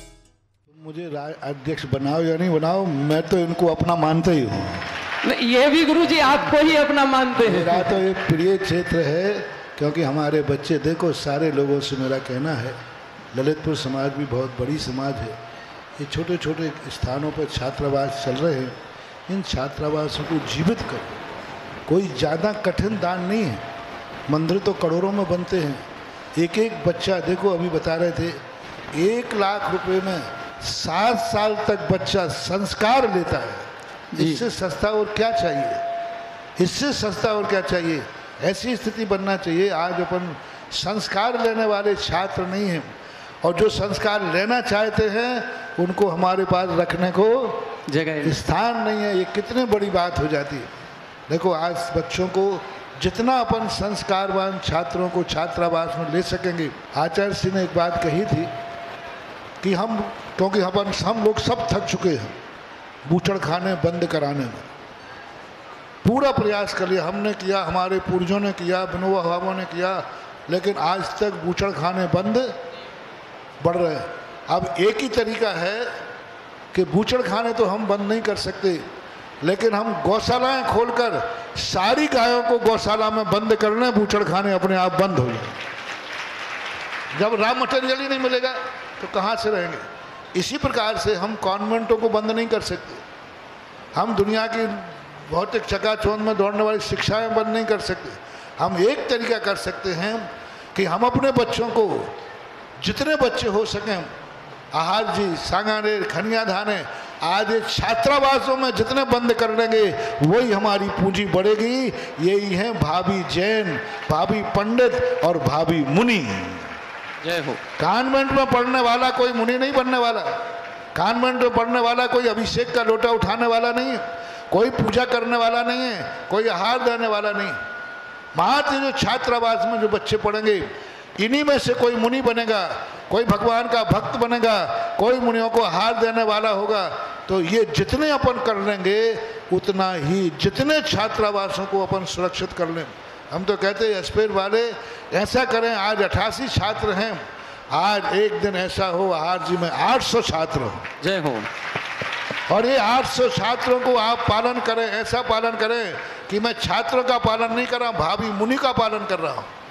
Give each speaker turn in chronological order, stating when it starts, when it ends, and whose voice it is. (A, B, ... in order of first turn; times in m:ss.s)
0:00.7-0:04.9 A
0:05.2-0:07.8 B
0:07.4-0:12.8 A
0:13.3-0:15.4 A
0:16.0-0:18.8 A
0:19.3-0:21.2 A
0:21.9-0:23.6 A
0:24.3-0:28.4 A
0:28.9-0:35.8 A
0:36.6-0:42.9 A
0:43.4-0:50.7 A
0:47.9-0:48.4 B
0:51.3-0:58.5 A
0:59.6-1:02.4 A
1:03.1-1:04.7 A
1:06.0-1:12.5 A
1:13.6-1:15.9 A
1:16.7-1:18.8 A
1:19.4-1:25.6 A
1:27.1-1:33.0 A
1:34.0-1:42.1 A
1:42.8-1:44.1 A
1:44.7-1:56.8 A
1:57.2-1:57.6 B
1:57.8-2:00.4 A
2:01.0-2:07.6 A
2:08.4-2:30.9 A
2:31.0-2:31.5 B
2:32.5-2:39.5 A